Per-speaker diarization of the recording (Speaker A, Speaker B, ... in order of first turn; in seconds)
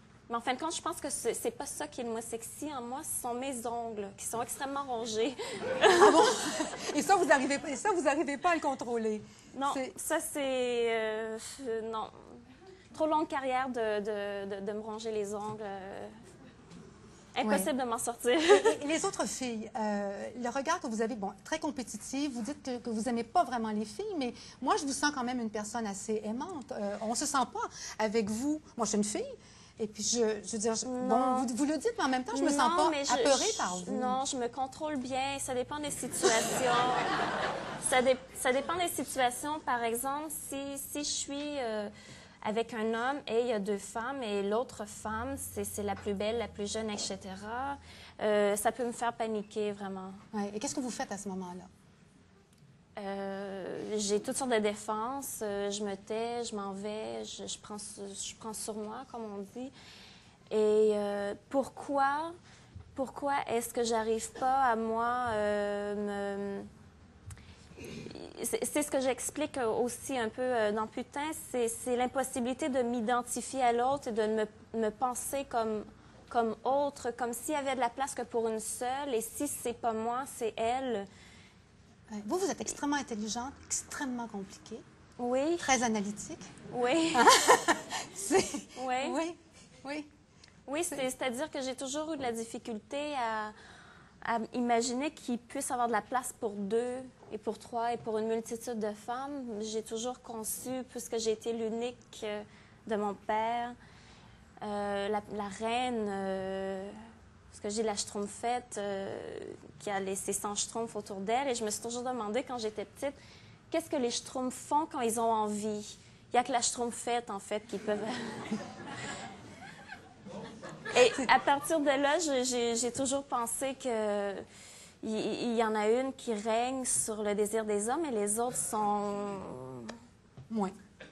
Speaker A: 0.3-6.3, 9.6-12.1, 12.9-16.1, 17.4-18.9, 30.9-31.5, 32.3-37.1, 37.8-41.9, 42.4-50.2, 53.0-59.7, 60.5-62.4, 63.0-66.7, 68.0-81.1, 85.2-85.7, 86.7-87.3, 88.8-89.2, 90.7-93.5, 94.2-103.8, 104.6-107.0, 107.5-113.2, 113.7-118.5, 120.9-124.4, 125.0-129.9
Speaker B: 5.9-10.0, 17.4-17.7, 18.5-34.2, 50.3-51.7, 82.1-84.8, 85.6-86.5, 87.1-90.1